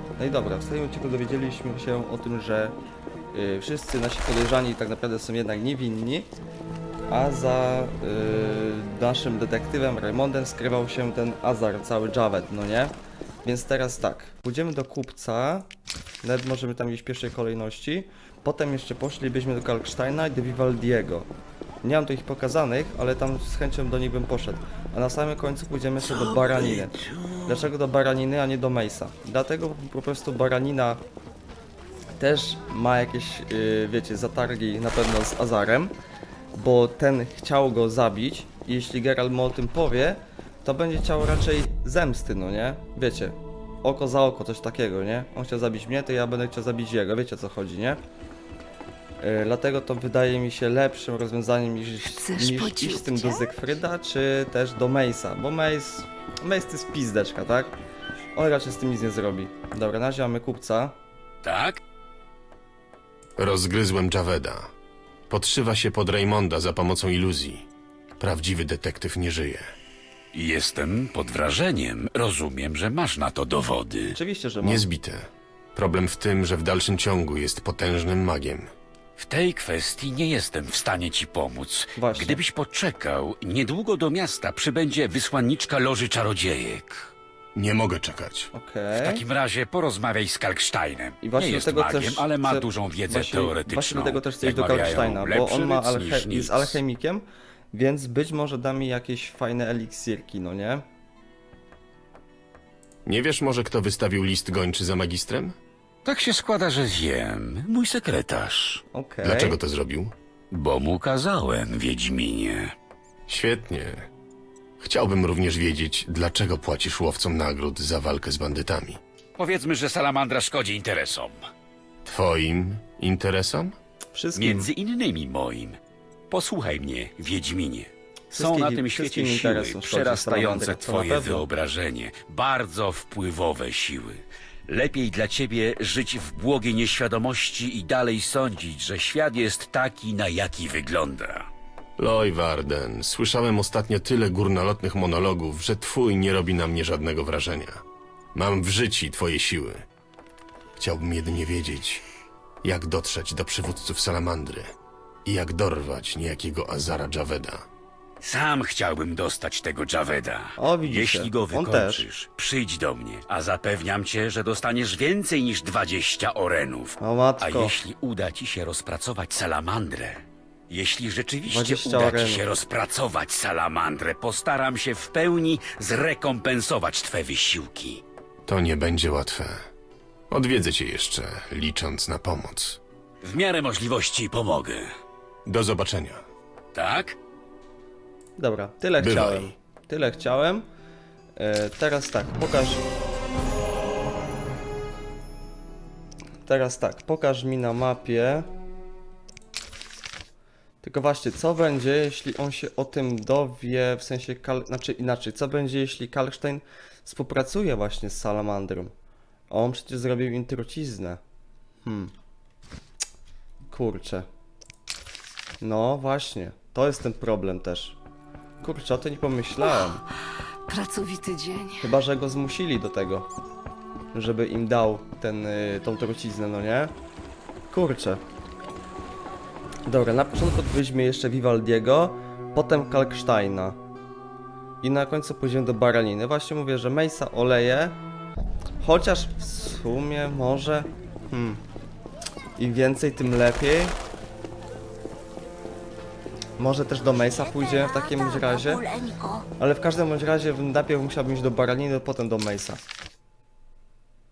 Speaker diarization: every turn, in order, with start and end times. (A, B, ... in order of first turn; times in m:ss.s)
0:00.2-0:02.7 A
0:03.3-0:06.3 A
0:07.1-0:15.7 A
0:16.2-0:21.3 A
0:21.8-0:31.0 A
0:32.2-0:35.9 A
0:36.5-0:48.0 A
0:49.2-0:57.7 A
0:52.0-0:53.5 B
0:58.3-1:01.0 A
1:01.4-1:01.8 C
1:03.4-1:04.7 D
1:05.3-1:07.7 D
1:08.2-1:09.7 D
1:10.3-1:14.2 C
1:14.1-1:14.8 A
1:14.6-1:18.7 D
1:19.2-1:27.1 C
1:22.0-1:22.4 A
1:27.5-1:28.5 D
1:28.5-1:29.2 A
1:29.0-1:36.8 C
1:31.2-1:40.8 A
1:43.0-1:45.6 D
1:46.0-1:48.8 C
1:48.9-1:49.6 A
1:49.2-1:50.1 D
1:50.5-1:52.7 C
1:53.3-1:54.1 D
1:54.8-1:59.0 D
1:59.4-2:01.4 C
2:02.0-2:03.8 D
2:04.1-2:04.7 A
2:04.4-2:05.8 C
2:06.3-2:21.5 C
2:08.3-2:11.4 A
2:22.0-2:27.8 D
2:28.3-2:29.8 D
2:30.8-2:32.0 D
2:32.6-2:34.7 D
2:35.2-2:37.6 D
2:38.2-2:58.0 C
2:40.6-2:42.1 A
2:47.0-2:47.7 A
2:51.5-2:52.4 A
2:58.4-2:59.7 D
3:00.3-3:02.8 D
3:03.2-3:04.9 C
3:05.5-3:06.2 D
3:06.7-3:07.2 C
3:08.4-3:10.7 A
3:09.0-3:09.6 D
3:11.4-3:12.8 A
3:16.5-3:18.5 A
3:20.8-3:28.9 A
3:29.5-3:31.2 A
3:31.8-3:32.1 A
3:33.7-3:34.3 A
3:35.6-3:38.0 A
3:38.6-3:40.0 A
3:40.7-3:41.9 B
3:41.8-3:43.3 A
3:44.1-3:46.9 A
3:47.7-3:48.2 A
3:49.9-3:53.8 A
3:54.8-3:58.0 A
3:58.8-4:01.6 A
4:02.6-4:04.0 A
4:06.6-4:08.8 A
4:07.3-4:09.4 B
4:09.6-4:12.8 A